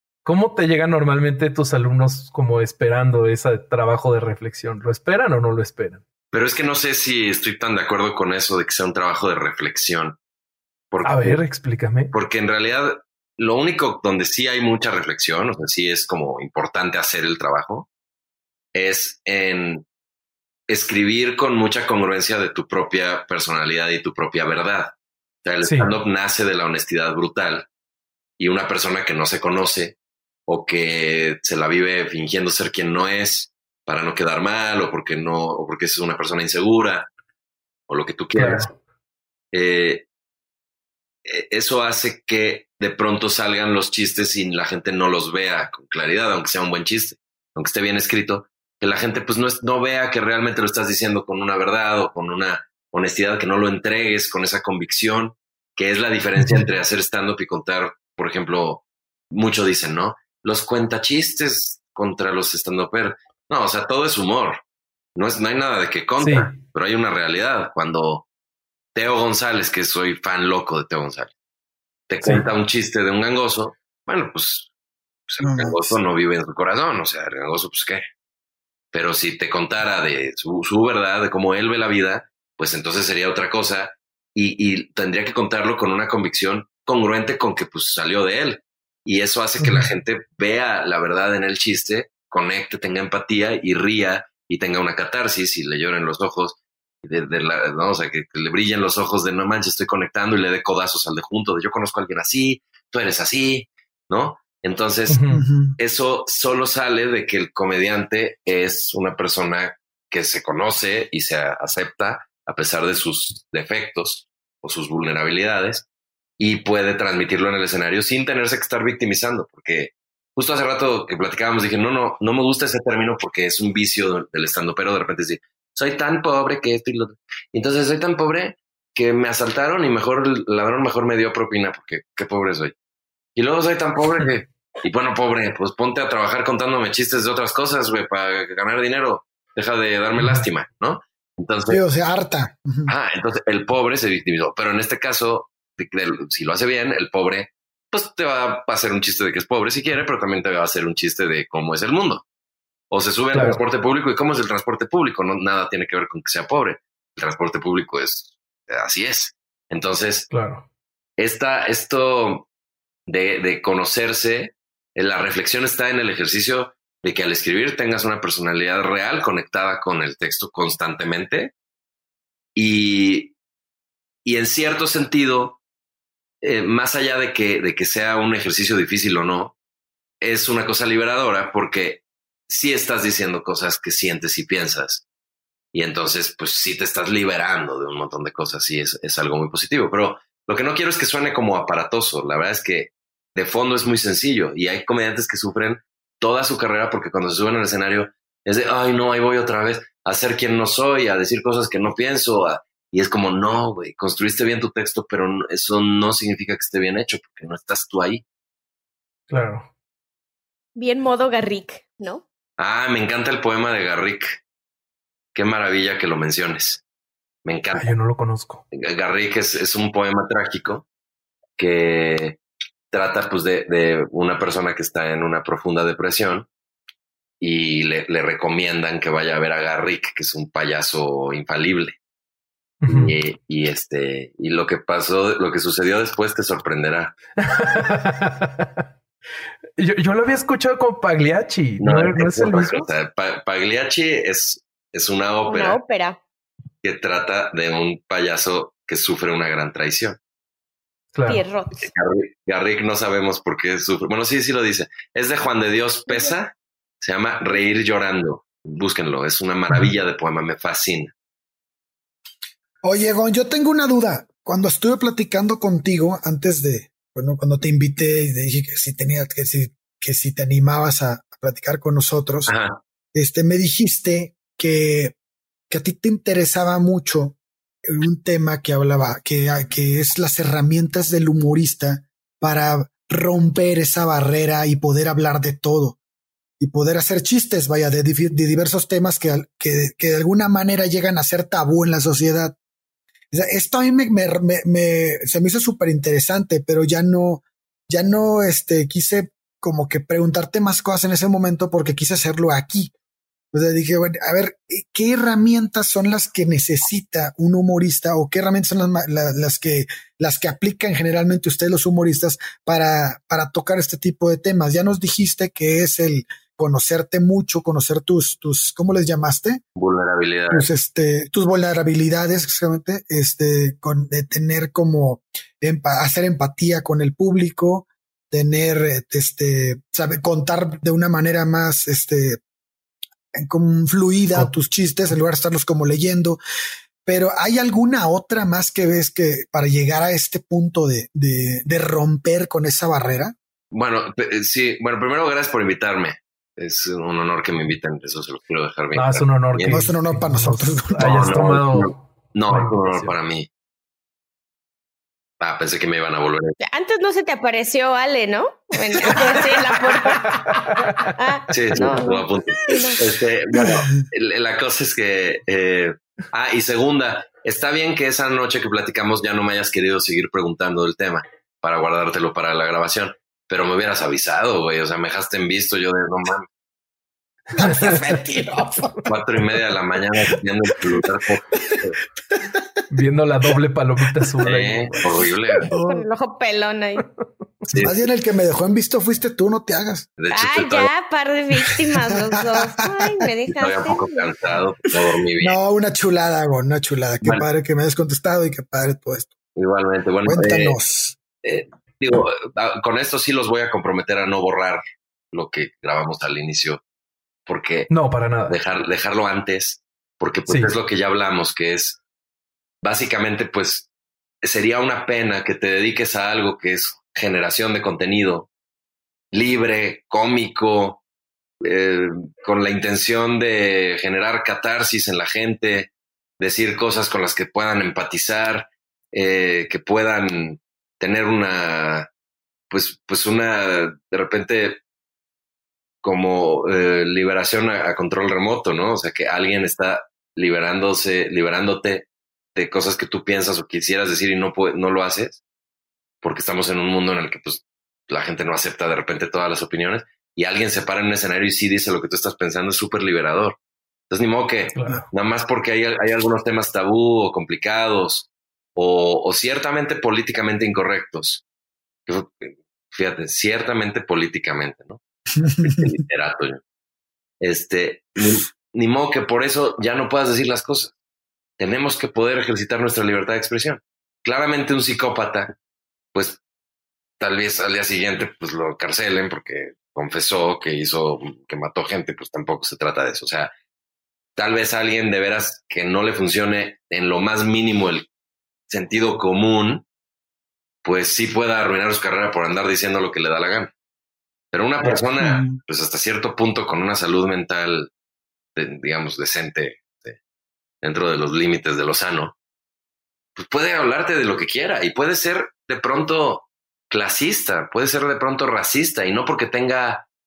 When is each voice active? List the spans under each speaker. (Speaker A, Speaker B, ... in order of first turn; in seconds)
Speaker A: 0.2-6.0, 11.0-12.1, 25.6-25.9, 38.4-38.7, 56.4-56.7, 66.2-66.5, 105.1-105.4, 140.2-140.4, 153.3-153.6, 160.3-160.7, 209.3-209.7, 217.8-218.6, 232.8-233.2, 237.4-238.7, 239.8-242.9, 251.1-251.4, 348.9-353.1, 360.6-361.0, 382.9-385.0, 407.9-408.6, 410.5-410.7, 454.7-455.1
Speaker B: 6.3-10.2, 10.9-11.3, 12.1-17.9, 18.7-19.9, 20.7-27.7, 28.4-30.0, 30.5-37.1, 37.9-38.7, 39.5-40.1, 41.2-64.6, 65.2-68.3, 69.0-71.3, 72.1-74.7, 75.3-78.1, 78.9-105.2, 105.8-115.9, 116.4-132.7, 133.4-141.8, 142.9-152.2, 152.9-160.3, 161.2-162.5, 163.1-171.5, 172.6-173.3, 174.2-175.6, 176.4-179.6, 180.2-185.1, 185.7-208.2, 212.6-214.4, 215.3-216.8, 217.4-217.9, 218.7-220.8, 221.6-222.4, 222.9-226.5, 227.4-232.0, 232.9-237.2, 241.8-245.8, 246.8-250.2, 251.8-261.1, 272.5-272.8, 319.8-320.7, 343.7-349.9, 351.0-353.5, 355.4-356.6, 361.5-376.5, 379.1-382.0, 384.4-385.7, 387.7-388.0, 390.2-390.9, 393.5-395.6, 399.6-400.8, 401.4-406.8, 407.5-407.9, 408.5-412.0, 412.8-413.9, 414.4-418.5, 419.3-421.0, 421.6-432.1, 432.7-434.8, 436.0-445.4, 446.2-453.6, 454.1-461.4, 462.1-466.6, 467.4-470.9, 471.6-475.6, 476.1-476.4, 477.2-483.5, 484.4-488.1, 488.7-489.9, 490.8-493.7, 494.5-497.9, 498.6-500.2, 500.8-502.4, 503.4-510.1
Speaker C: 75.4-76.0, 105.3-105.8, 141.7-142.9, 262.8-272.5, 273.1-275.2, 275.7-286.0, 286.6-292.6, 293.3-302.9, 303.5-319.6, 320.5-332.4, 333.4-336.4, 337.1-343.4, 349.7-351.4, 377.6-379.1, 385.6-386.1, 387.7-390.1, 395.4-399.4, 400.3-401.2, 465.5-465.8, 495.2-495.6
Speaker D: 210.8-212.2, 245.5-246.2, 251.3-251.9, 256.1-256.3, 356.6-363.0, 385.7-387.1, 390.3-394.2